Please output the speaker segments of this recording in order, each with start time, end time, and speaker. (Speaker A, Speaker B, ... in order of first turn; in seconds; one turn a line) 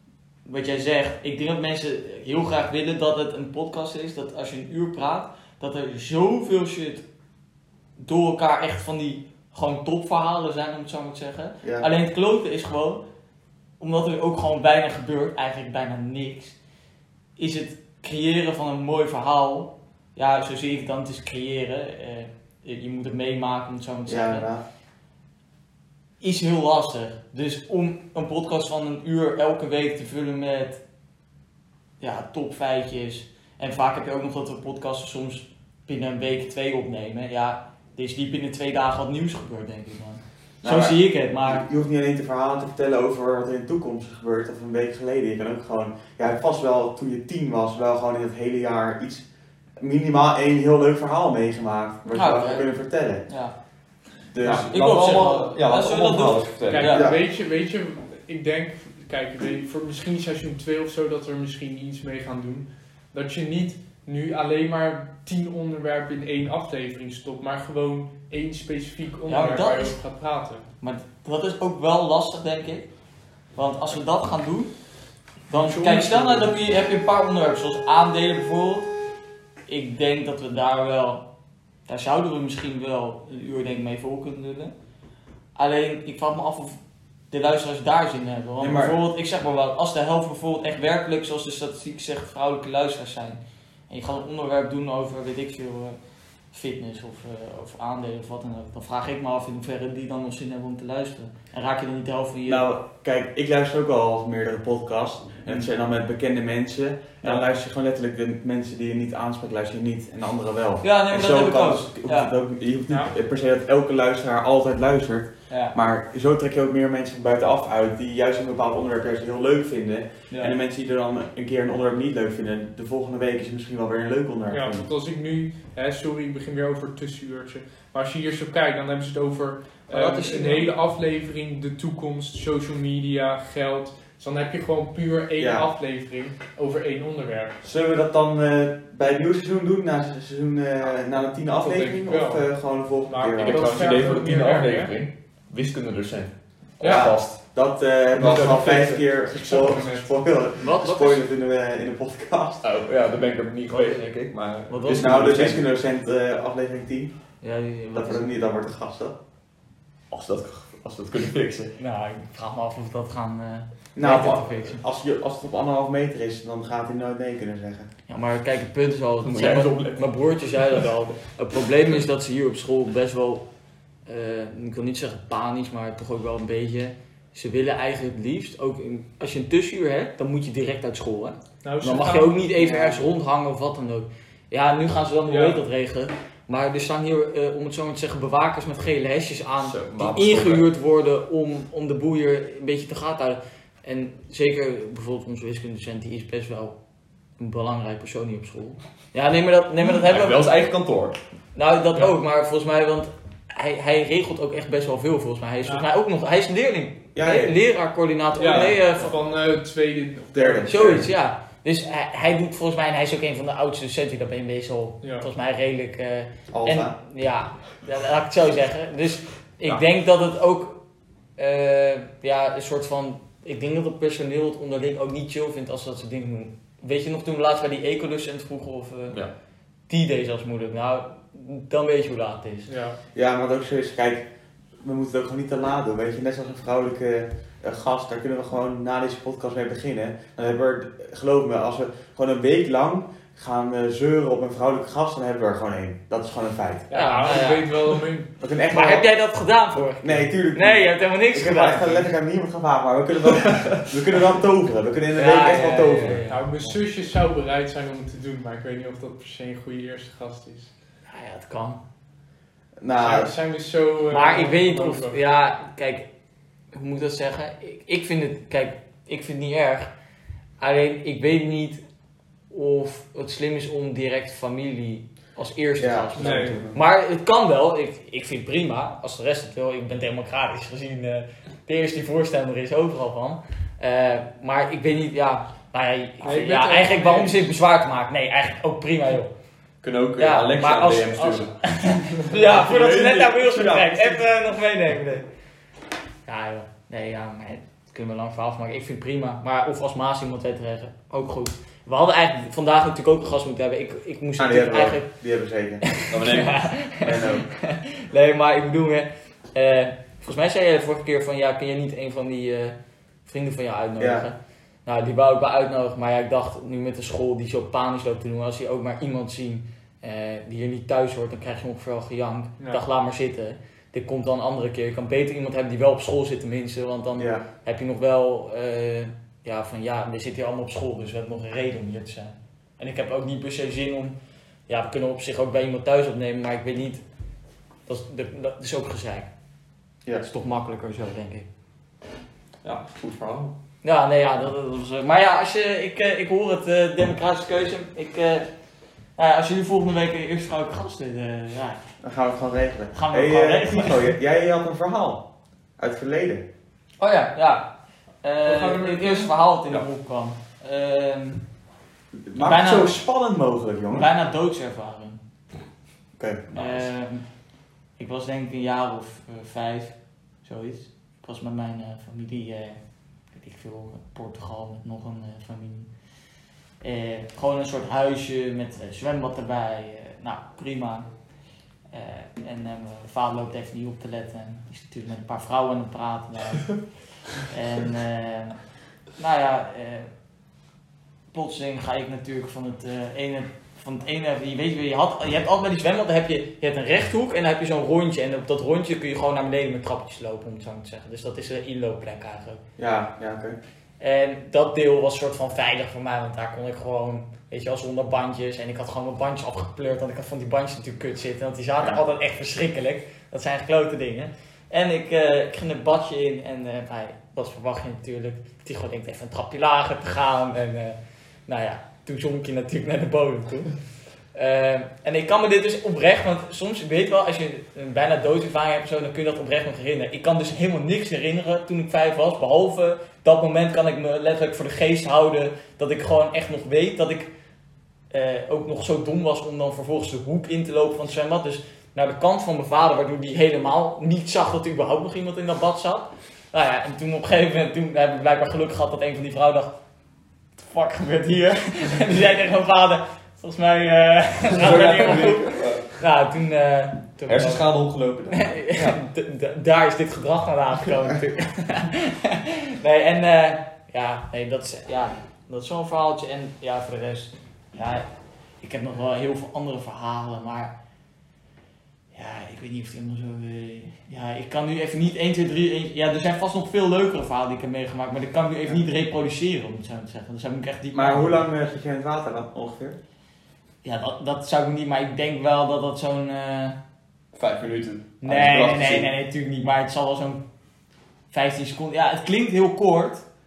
Speaker A: 0.5-7.0
Speaker A: 8.0-13.0
Speaker B: 11.6-11.9
Speaker A: 13.8-16.6
Speaker A: 17.4-24.5
Speaker B: 24.1-24.6
Speaker A: 26.2-30.8
Speaker A: 32.0-41.6
Speaker B: 40.6-49.2
Speaker B: 49.8-53.2
Speaker A: 52.1-52.7
Speaker A: 53.3-53.5
Speaker B: 54.3-54.7
Speaker A: 54.4-57.1
Speaker C: 54.4-57.0
Speaker D: 56.7-70.7
Speaker B: 56.9-57.2
Speaker A: 69.3-70.0
Speaker A: 70.8-72.9
Speaker A: 73.5-74.7
Speaker A: 75.5-78.9
Speaker D: 75.5-76.5
Speaker A: 79.7-81.2
Speaker A: 81.9-84.7
Speaker A: 85.5-86.8
Speaker A: 87.3-96.0
Speaker B: 88.6-89.0
Speaker A: 96.5-102.6
Speaker B: 102.5-124.9
Speaker A: 110.8-112.3
Speaker D: 112.9-113.1
Speaker A: 115.5-115.7
Speaker D: 124.5-137.6
Speaker A: 129.9-130.7
Speaker B: 135.4-135.7
Speaker B: 137.6-143.8
Speaker D: 141.6-142.5
Speaker D: 143.0-144.9
Speaker C: 143.4-147.4
Speaker D: 146.8-147.1
Speaker B: 146.8-152.6
Speaker D: 148.1-150.1
Speaker C: 148.2-148.7
Speaker A: 150.6-151.2
Speaker C: 152.6-155.6
Speaker A: 153.7-154.0
Speaker A: 154.7-155.3
Speaker B: 154.9-157.1
Speaker A: 157.4-158.3
Speaker B: 157.9-159.1
Speaker C: 160.1-161.7
Speaker A: 161.8-164.8
Speaker B: 163.9-167.9
Speaker C: 164.1-164.4
Speaker A: 168.1-173.4
Speaker C: 169.2-170.1
Speaker A: 174.1-196.7
Speaker D: 181.6-182.4
Speaker B: 182.6-183.0
Speaker D: 185.3-185.6
Speaker C: 189.6-190.6
Speaker A: 197.4-200.5
Speaker C: 199.8-201.2
Speaker A: 201.5-209.2
Speaker B: 207.1-207.6
Speaker D: 208.4-210.7
Speaker B: 208.5-208.7
Speaker B: 210.3-211.1
Speaker A: 210.7-220.8
Speaker D: 215.0-215.3
Speaker B: 216.5-216.9
Speaker A: 221.4-229.2
Speaker A: 229.9-232.7
Speaker D: 232.7-233.0
Speaker B: 233.1-234.2
Speaker B: 234.8-246.9
Speaker D: 246.9-248.3
Speaker A: 246.9-248.0
Speaker B: 248.4-249.1
Speaker A: 248.7-252.1
Speaker B: 250.0-256.2
Speaker A: 255.1-256.4
Speaker D: 256.3-260.7
Speaker A: 261.1-261.8
Speaker B: 262.8-263.3
Speaker D: 263.0-265.2
Speaker A: 264.1-266.1
Speaker A: 266.7-269.9
Speaker A: 270.6-271.8
Speaker A: 272.5-289.3
Speaker B: 275.8-276.8
Speaker D: 276.1-276.6
Speaker D: 286.2-287.5
Speaker C: 289.8-294.2
Speaker A: 290.2-295.2
Speaker A: 296.2-305.1
Speaker B: 304.4-305.8
Speaker A: 305.8-334.1
Speaker C: 306.1-306.7
Speaker B: 307.0-307.5
Speaker B: 314.0-314.2
Speaker B: 327.2-327.4
Speaker A: 334.7-337.0
Speaker A: 337.9-339.3
Speaker A: 340.2-341.4
Speaker C: 342.6-343.5
Speaker A: 343.8-348.5
Speaker A: 349.2-351.8
Speaker B: 352.0-355.2
Speaker A: 352.9-354.1
Speaker B: 355.8-356.4
Speaker A: 357.0-357.7
Speaker A: 358.2-361.4
Speaker D: 358.4-359.3
Speaker B: 362.2-364.1
Speaker A: 362.4-362.9
Speaker A: 363.9-365.2
Speaker B: 366.2-366.8
Speaker A: 366.5-367.2
Speaker A: 368.0-372.8
Speaker A: 373.3-375.9
Speaker A: 376.8-381.1
Speaker A: 381.9-386.8
Speaker A: 387.4-388.6
Speaker A: 389.2-390.1
Speaker A: 391.3-402.6
Speaker B: 402.8-403.6
Speaker A: 404.0-423.7
Speaker A: 424.3-437.3
Speaker A: 438.1-449.8
Speaker A: 450.6-457.6
Speaker C: 454.5-455.9
Speaker C: 457.3-459.0
Speaker A: 458.3-468.1
Speaker A: 468.6-470.7
Speaker A: 472.1-481.4
Speaker B: 480.9-483.0
Speaker A: 483.8-486.8
Speaker C: 487.3-489.1
Speaker A: 488.2-490.4
Speaker A: 491.3-493.2